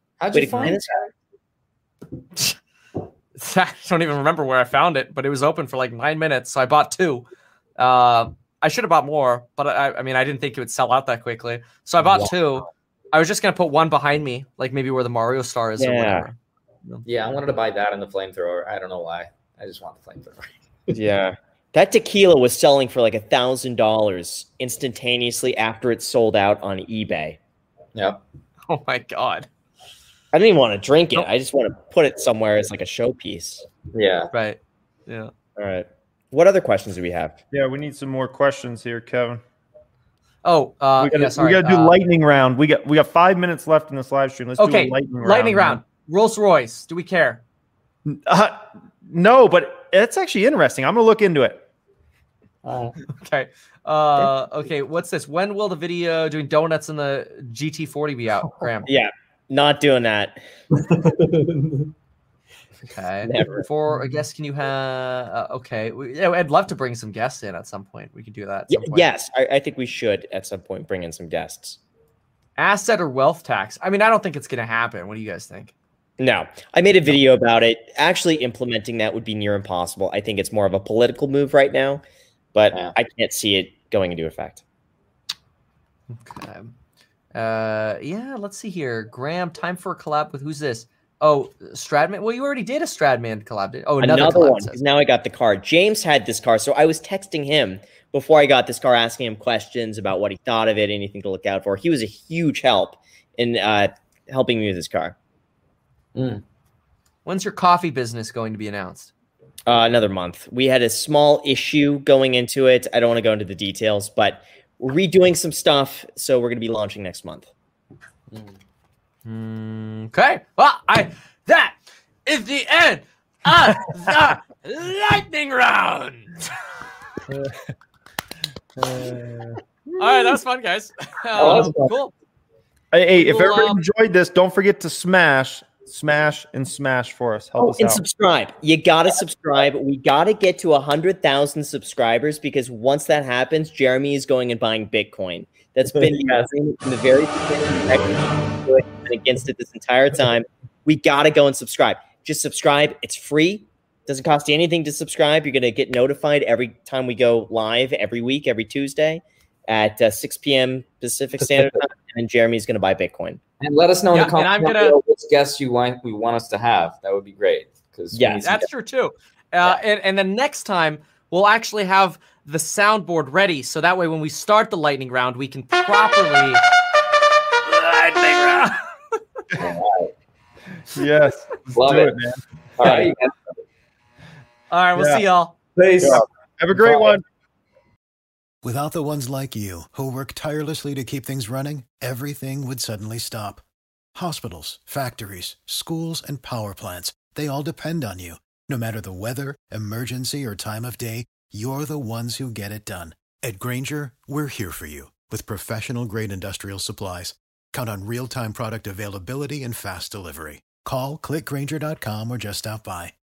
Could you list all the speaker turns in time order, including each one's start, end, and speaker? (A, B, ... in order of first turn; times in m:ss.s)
0:00.2-0:01.0 A
0:00.3-0:01.0 B
0:03.4-0:07.2 C
0:07.8-0:17.0 C
0:15.8-0:16.3 B
0:17.0-0:20.9 A
0:20.9-0:27.4 B
0:27.9-0:28.2 A
0:28.7-0:29.5 C
0:30.3-0:33.7 B
0:33.9-0:34.3 A
0:34.3-0:35.3 C
0:35.6-0:37.4 B
0:37.5-0:39.4 D
0:40.4-0:41.9 C
0:41.0-0:45.8 D
0:44.6-0:47.4 C
0:48.0-0:51.6 D
0:52.6-0:52.9 A
0:53.2-0:58.9 C
0:58.8-1:00.4 B
1:00.8-1:01.9 A
1:02.8-1:09.1 C
1:03.2-1:03.6 B
1:08.7-1:11.8 B
1:12.6-1:15.7 C
1:16.2-1:22.0 B
1:22.5-1:24.6 B
1:26.1-1:26.7 C
1:27.3-1:34.8 C
1:34.0-1:45.1 B
1:46.1-1:46.4 A
1:47.2-1:49.1 C
1:49.7-1:57.5 B
1:59.2-2:06.5 C
2:03.7-2:04.2 D
2:08.9-2:10.4 D
2:10.0-2:12.1 C
2:11.4-2:11.9 A
2:12.9-2:18.0 D
2:13.2-2:13.8 C
2:17.6-2:43.4 B
2:25.9-2:26.7 A
2:27.5-2:27.9 A
2:41.4-2:41.8 A
2:43.6-2:48.6 A
2:44.1-2:45.0 C
2:48.1-2:48.6 B
2:48.4-2:56.6 C
2:57.6-2:58.8 C
2:59.6-3:00.1 A
3:00.9-3:03.1 D
3:01.7-3:02.1 A
3:02.8-3:03.3 A
3:04.7-3:05.6 C
3:05.0-3:05.2 D
3:05.8-3:07.1 A
3:06.0-3:07.2 D
3:08.6-3:33.1 E